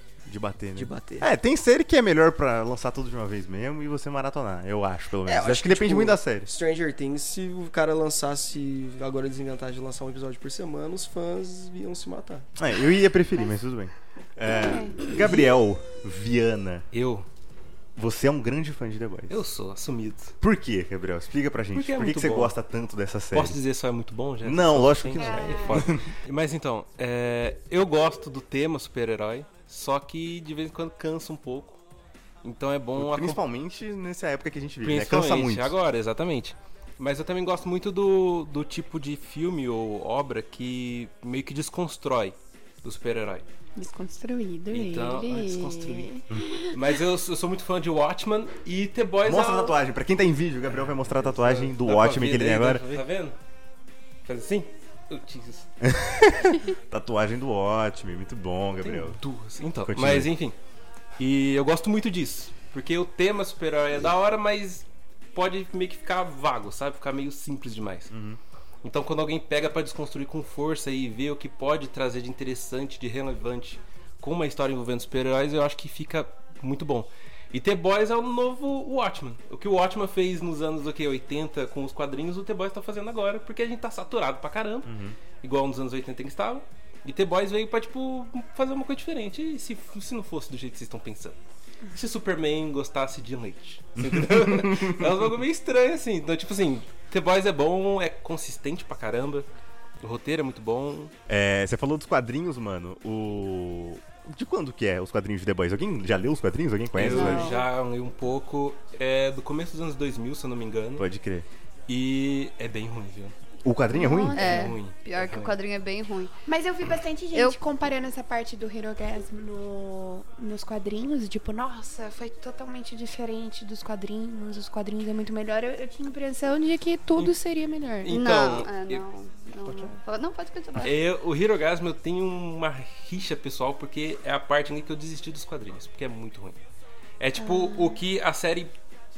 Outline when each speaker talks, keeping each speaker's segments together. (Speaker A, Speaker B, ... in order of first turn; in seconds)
Speaker A: 0.2-6.5, 12.6-16.9, 17.9-19.4, 20.4-23.6, 24.4-26.1, 33.0-35.7, 49.2-52.8, 55.8-59.2, 59.9-60.3, 68.1-68.4, 84.8-85.2, 94.0-95.0, 101.3-107.5, 111.0-111.5, 113.6-114.6
Speaker B: 0.7-1.3, 5.2-12.5
Speaker C: 14.5-15.4, 25.2-25.9, 43.8-46.8, 113.9-114.7, 116.5-128.1, 137.4-138.0
Speaker D: 16.9-17.2, 19.3-20.3, 21.7-22.6, 23.3-31.8, 32.4-33.4, 34.8-43.4, 44.7-49.8, 50.8-53.4, 54.2-55.6, 58.8-60.5, 61.2-68.1, 68.8-91.4, 91.9-99.5, 100.0-101.1, 106.9-111.0, 111.9-113.3, 114.3-115.5, 128.0-129.0, 129.7-129.9, 130.8-136.6, 137.2-138.7
Speaker E: 107.1-107.7, 114.3-116.3, 128.1-131.0